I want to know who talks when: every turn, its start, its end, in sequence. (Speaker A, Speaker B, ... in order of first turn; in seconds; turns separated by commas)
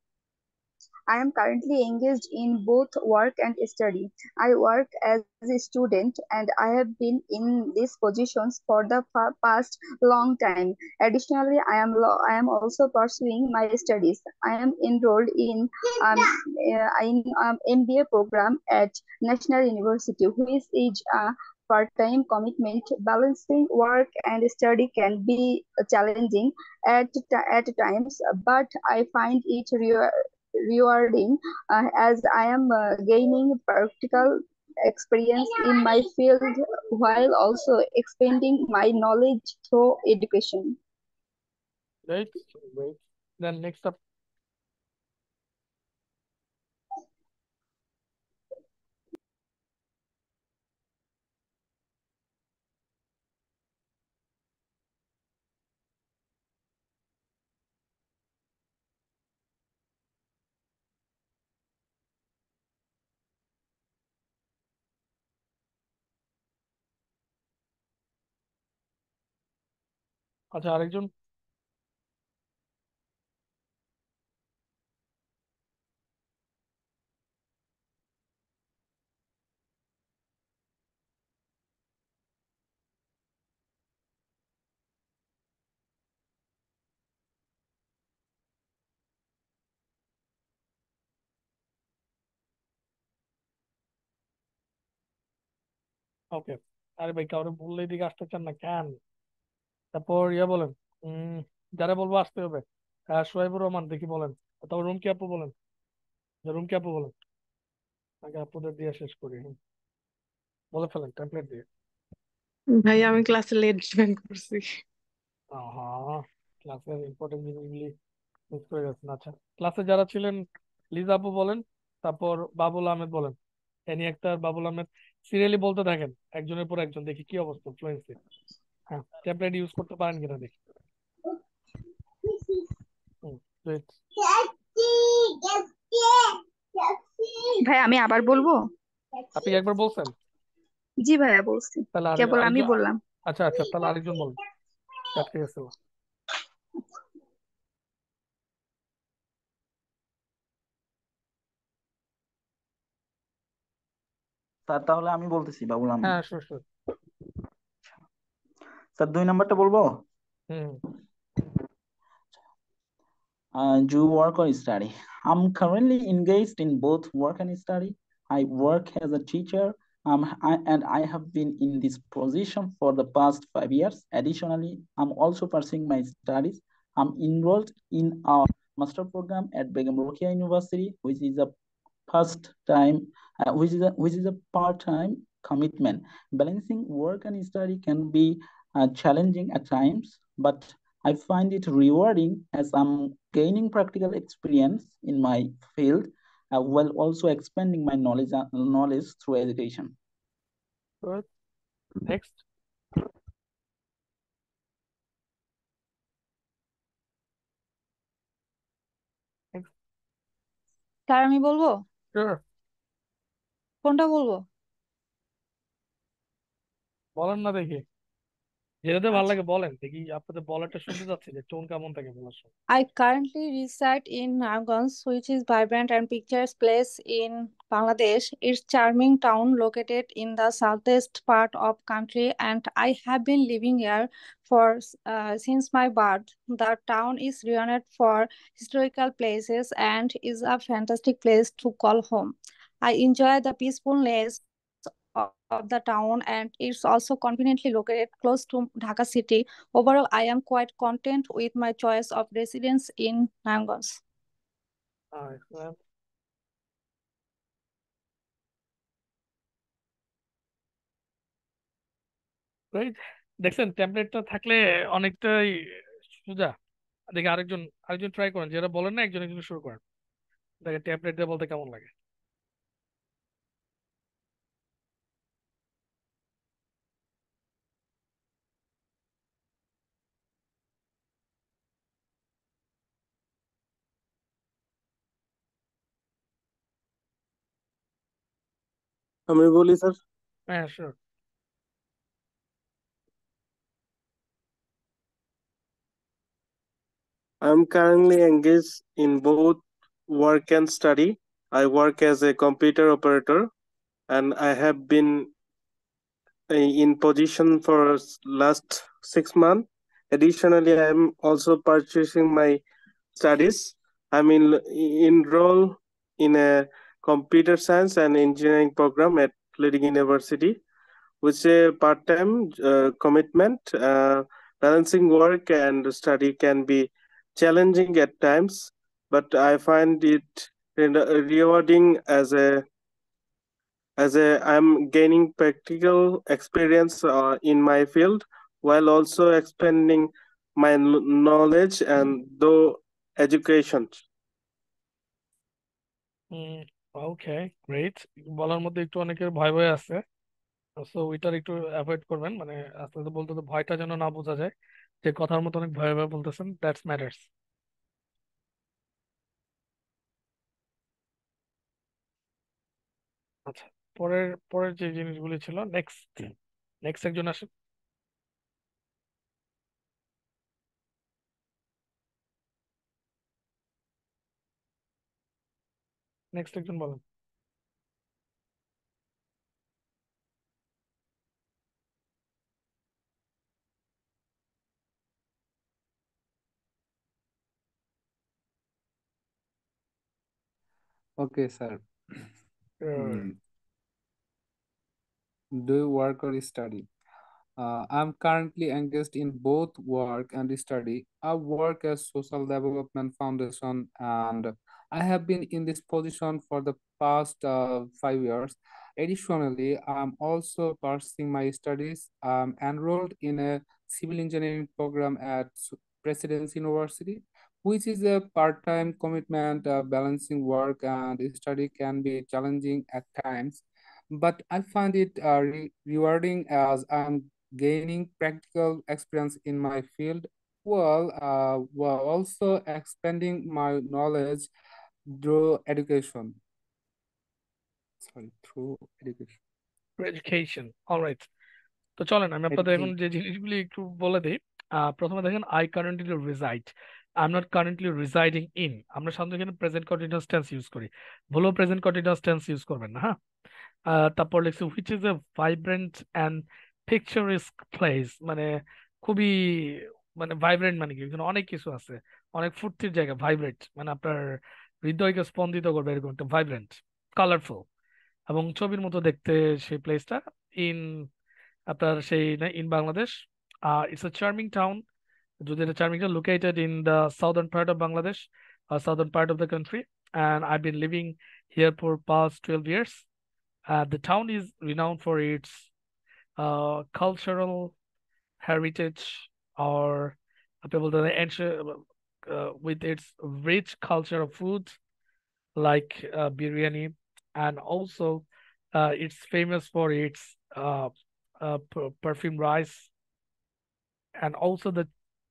Speaker A: 1.1-30.1, Speaker A: 30.7-40.8, Speaker B: 42.1-44.0, Speaker B: 70.5-71.1, Speaker B: 96.3-99.0, Speaker B: 99.9-105.5, Speaker B: 106.5-107.1, Speaker B: 108.2-109.6, Speaker B: 110.7-111.7, Speaker C: 112.7-114.7, Speaker B: 115.5-117.9, Speaker B: 118.5-123.4, Speaker B: 123.9-128.2, Speaker B: 128.9-130.5, Speaker B: 133.2-134.0, Speaker A: 134.8-136.3, Speaker A: 137.6-138.6, Speaker B: 139.3-140.1, Speaker A: 141.0-143.0, Speaker B: 141.9-144.4, Speaker B: 145.1-145.7, Speaker D: 154.7-156.2, Speaker B: 156.0-156.6, Speaker D: 159.0-160.0, Speaker B: 160.5-160.8, Speaker D: 163.6-181.5, Speaker D: 182.1-199.9, Speaker B: 202.1-202.4, Speaker E: 211.1-211.8, Speaker B: 212.1-212.4, Speaker E: 213.8-214.4, Speaker B: 217.2-217.8, Speaker B: 218.8-222.5, Speaker E: 222.7-244.4, Speaker E: 245.2-254.0, Speaker B: 255.1-255.8, Speaker B: 262.7-266.6, Speaker B: 267.1-269.8, Speaker B: 270.6-271.9, Speaker F: 289.3-290.0, Speaker B: 290.5-291.0, Speaker F: 297.4-303.5, Speaker F: 304.1-305.3, Speaker F: 306.5-312.6, Speaker F: 313.2-320.6, Speaker F: 321.2-332.6, Speaker F: 334.0-344.0, Speaker B: 346.3-350.0, Speaker B: 350.8-354.5, Speaker B: 355.0-357.3, Speaker B: 363.5-366.3, Speaker B: 366.8-367.5, Speaker B: 376.3-377.0, Speaker G: 391.2-392.3, Speaker B: 392.8-393.3, Speaker G: 393.0-393.4, Speaker G: 395.5-396.9, Speaker G: 397.6-434.5, Speaker G: 435.1-436.4, Speaker G: 438.0-439.4, Speaker B: 440.0-441.3, Speaker B: 442.0-453.2, Speaker G: 442.5-442.9, Speaker B: 453.9-458.5, Speaker B: 459.0-467.7, Speaker B: 468.3-471.1, Speaker B: 471.7-474.8, Speaker B: 475.4-483.1, Speaker B: 483.7-485.7, Speaker B: 486.4-487.7, Speaker B: 488.4-494.8, Speaker B: 495.6-502.9, Speaker B: 504.2-504.9